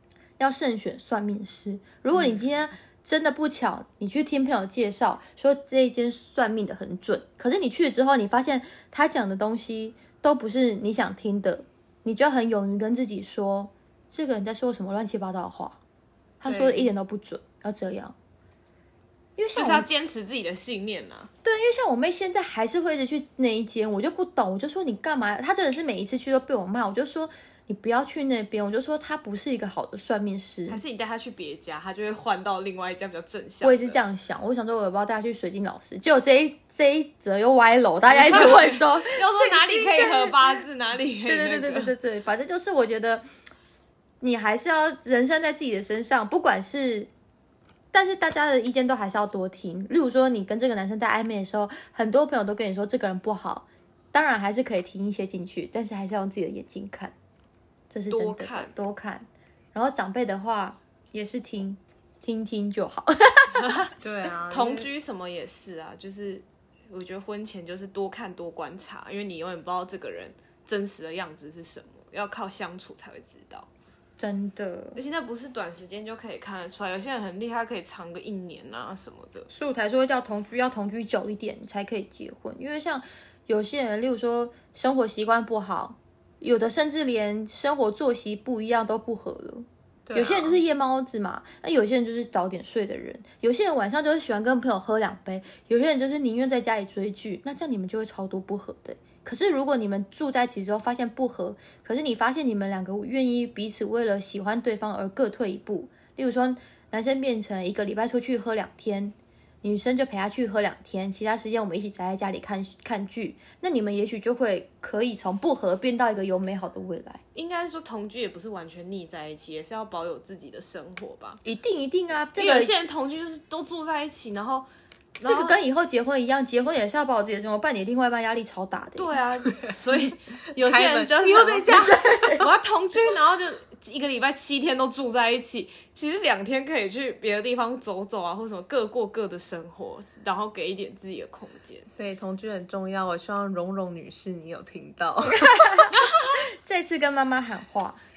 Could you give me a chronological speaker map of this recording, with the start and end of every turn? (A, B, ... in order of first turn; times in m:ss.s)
0:00.4-0:15.8 A
0:16.4-0:18.2 A
0:16.4-0:16.9 B
0:19.4-0:19.9 A
0:19.6-0:21.3 B
0:21.4-0:30.8 A
0:30.7-0:34.0 B
0:33.6-0:40.5 A
0:38.1-0:41.9 B
0:41.3-0:43.2 A
0:44.2-0:47.1 A
0:47.9-0:57.1 A
0:57.9-1:03.8 A
0:58.1-0:58.7 B
1:03.6-1:03.9 B
1:04.0-1:04.9 C
1:04.5-1:13.7 B
1:14.2-1:15.0 A
1:15.0-1:19.5 B
1:19.5-1:57.2 A
1:30.1-1:30.6 C
1:57.4-2:01.4 B
2:01.4-2:02.8 A
2:02.4-2:05.6 B
2:05.2-2:09.2 A
2:09.0-2:21.9 B
2:10.6-2:12.4 C
2:11.9-2:12.4 A
2:21.9-2:25.5 C
2:25.4-2:26.0 A
2:26.0-2:26.4 B
2:26.6-2:28.0 A